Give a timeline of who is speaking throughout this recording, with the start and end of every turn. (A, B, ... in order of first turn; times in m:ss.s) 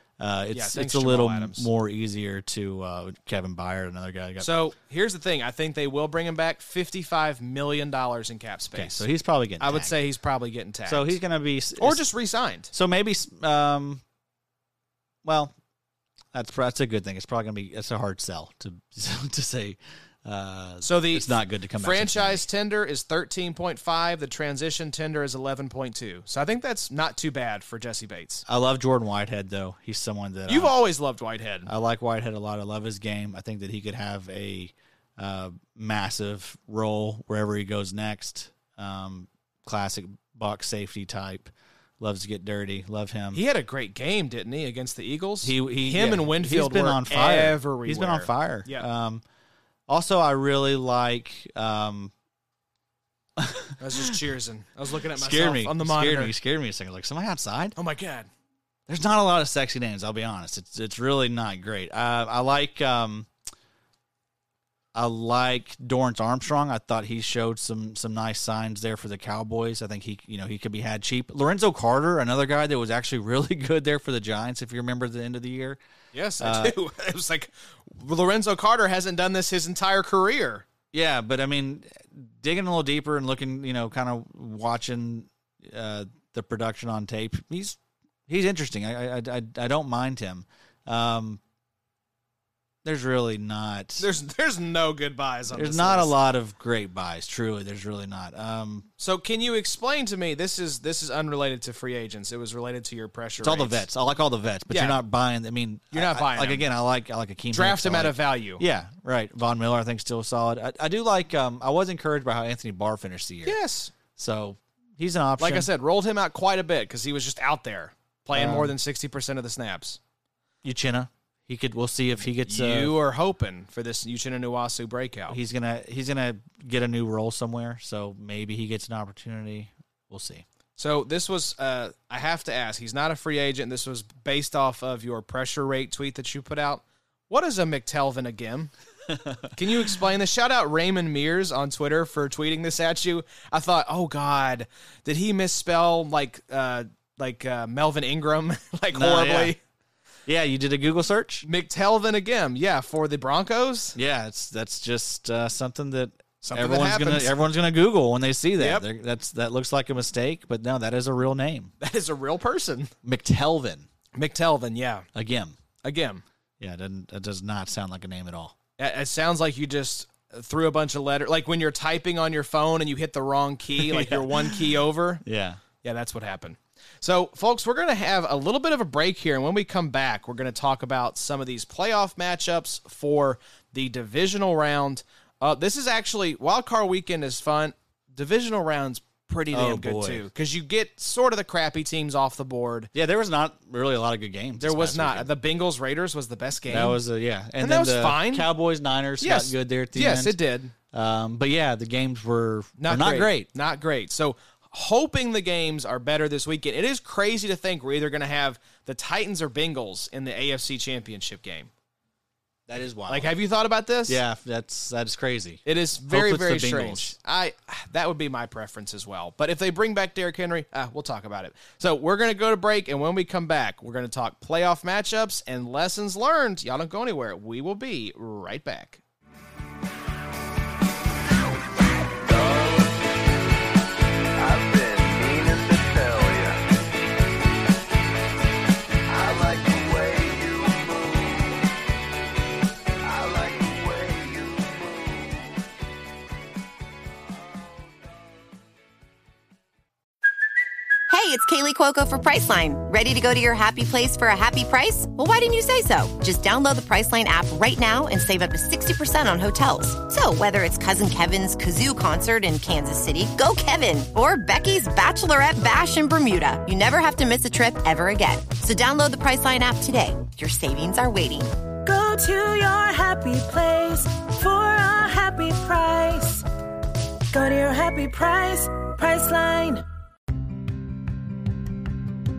0:00.2-0:04.5 A
0:00.5-0:01.7 B
0:04.4-0:09.0 B
0:08.7-0:09.9 A
0:09.6-0:11.2 B
0:10.9-0:12.0 A
0:11.8-0:12.7 B
0:12.7-0:14.0 A
0:15.2-0:15.5 A
0:16.3-0:22.4 A
0:20.8-0:28.4 B
0:28.5-0:30.8 A
0:30.5-0:31.7 B
0:31.7-0:43.4 A
0:43.3-0:48.9 B
0:45.4-0:49.2 A
0:49.9-0:52.1 A
0:53.4-0:53.8 A
0:53.8-0:56.3 B
0:55.2-0:57.8 A
0:57.8-0:58.3 B
0:58.9-1:03.3 A
1:04.9-1:15.8 A
1:16.1-1:20.7 B
1:16.4-1:16.8 A
1:20.9-1:31.4 A
1:32.8-1:34.1 A
1:34.0-1:36.1 B
1:35.5-1:38.9 A
1:39.0-1:43.9 B
1:43.4-1:53.6 A
1:44.7-1:45.0 B
1:45.9-1:46.6 B
1:47.5-1:48.6 B
1:53.4-1:53.9 B
1:54.2-1:55.7 A
1:55.4-2:00.0 B
1:58.3-1:58.7 A
2:00.6-2:03.0 A
2:02.5-2:05.4 B
2:05.3-2:10.4 A
2:10.8-2:18.7 B
2:19.1-2:19.4 A
2:19.5-2:29.6 B
2:28.9-2:29.5 A
2:30.3-2:31.5 A
2:31.4-2:34.0 B
2:34.0-2:41.7 A
2:36.4-2:37.3 B
2:38.6-2:38.9 B
2:41.8-2:42.9 B
2:43.0-2:43.9 A
2:44.2-2:45.1 B
2:45.1-2:45.6 A
2:45.8-2:46.2 B
2:46.6-2:48.6 A
2:48.8-2:55.2 B
2:53.8-2:54.5 A
2:55.2-2:55.6 A
2:55.8-3:12.9 B
3:09.5-3:10.3 A
3:12.9-3:15.3 A
3:14.6-3:17.0 B
3:16.7-3:20.4 A
3:17.6-3:18.5 B
3:19.2-3:20.7 B
3:20.9-3:23.5 A
3:22.8-3:31.7 B
3:32.7-3:33.3 A
3:33.1-3:34.2 B
3:34.1-3:37.1 A
3:35.6-3:49.0 B
3:52.2-3:53.0 C
3:54.4-3:56.6 C
3:59.1-4:01.6 C
4:03.0-4:05.4 C
4:11.1-4:31.5 D
4:31.8-4:36.4 E
4:37.3-4:39.8 E